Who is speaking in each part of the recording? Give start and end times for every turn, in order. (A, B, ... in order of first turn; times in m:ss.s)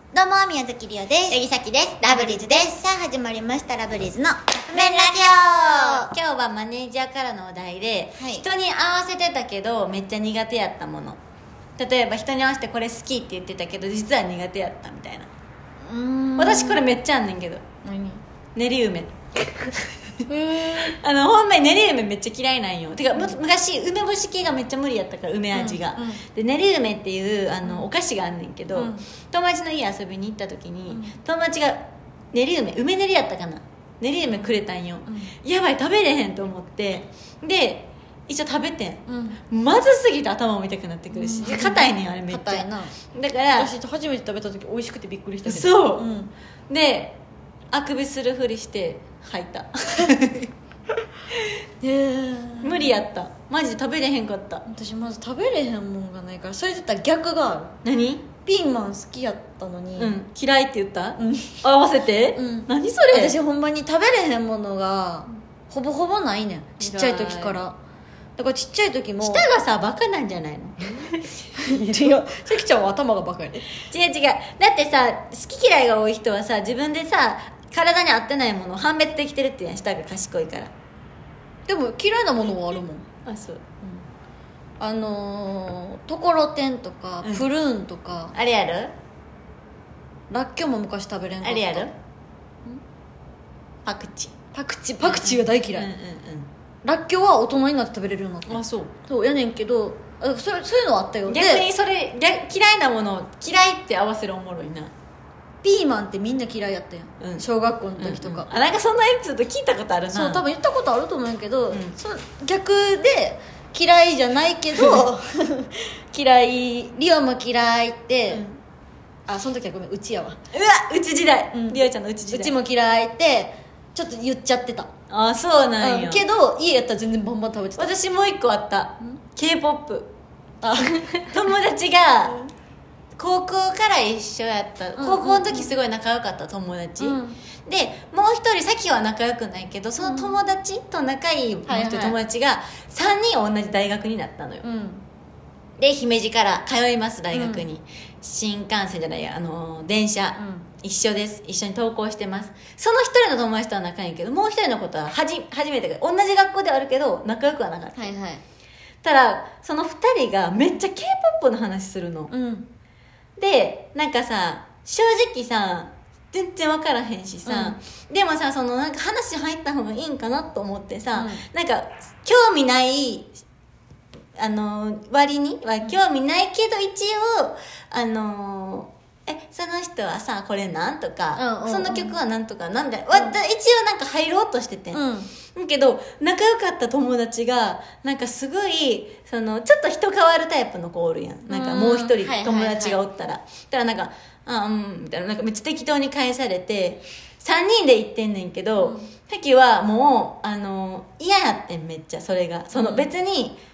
0:00.1-0:06.1 A
0:02.1-0:02.6 B
0:04.7-0:05.0 B
0:05.0-0:11.2 C
0:08.2-0:08.4 A
0:11.8-0:15.3 C
0:15.8-0:16.8 B
0:16.4-0:17.6 C
0:17.8-0:18.2 B
0:18.5-0:19.1 C
0:20.2-0:21.0 B
0:20.6-0:43.8 C
0:25.5-0:26.2 B
0:27.6-0:27.9 B
0:28.7-0:29.0 B
0:30.9-0:31.2 B
0:34.3-0:35.3 B
0:39.1-0:39.4 B
0:41.1-0:43.0 B
0:43.5-0:46.3 B
0:45.4-0:46.1 C
0:46.7-0:47.2 C
0:47.7-0:50.5 C
0:51.8-0:53.0 B
0:52.6-0:54.6 C
0:54.7-0:57.8 B
0:57.8-0:58.3 C
0:58.4-1:00.2 B
1:00.0-1:03.4 C
1:01.2-1:01.6 B
1:02.3-1:07.8 B
1:06.8-1:07.6 C
1:08.4-1:09.4 B
1:09.2-1:11.4 C
1:11.6-1:13.7 B
1:13.9-1:20.7 C
1:21.6-1:23.0 B
1:23.2-1:23.6 C
1:24.8-1:28.3 B
1:27.2-1:27.5 C
1:28.3-1:28.9 C
1:30.3-1:31.9 B
1:31.4-1:31.9 C
1:33.8-1:34.3 C
1:34.5-1:35.9 B
1:35.0-1:36.5 C
1:36.8-1:41.7 B
1:38.4-1:39.0 C
1:41.2-1:44.9 C
1:45.6-1:48.5 B
1:47.2-1:47.4 C
1:48.0-1:50.5 C
1:50.1-1:58.4 B
1:51.7-1:52.0 C
1:54.7-1:55.1 C
1:58.3-1:58.6 C
1:59.3-2:00.4 B
2:00.5-2:02.6 C
2:01.5-2:04.9 B
2:05.1-2:06.2 C
2:05.8-2:07.9 B
2:07.8-2:10.1 C
2:10.6-2:11.3 B
2:10.8-2:12.4 C
2:13.2-2:24.6 C
2:15.0-2:15.7 B
2:17.0-2:17.4 B
2:20.0-2:20.4 B
2:21.6-2:22.2 B
2:24.6-2:25.0 B
2:25.8-2:38.1 C
2:27.3-2:27.7 B
2:30.4-2:30.7 B
2:37.9-2:38.4 B
2:39.0-2:42.3 C
2:42.3-2:42.7 B
2:43.4-2:53.4 C
2:47.4-2:47.8 B
2:51.1-2:51.4 B
2:54.4-3:05.0 C
3:01.3-3:02.2 B
3:04.9-3:05.3 B
3:05.5-3:23.6 C
3:11.5-3:12.9 B
3:12.5-3:12.9 A
3:18.8-3:19.1 B
3:22.7-3:23.1 B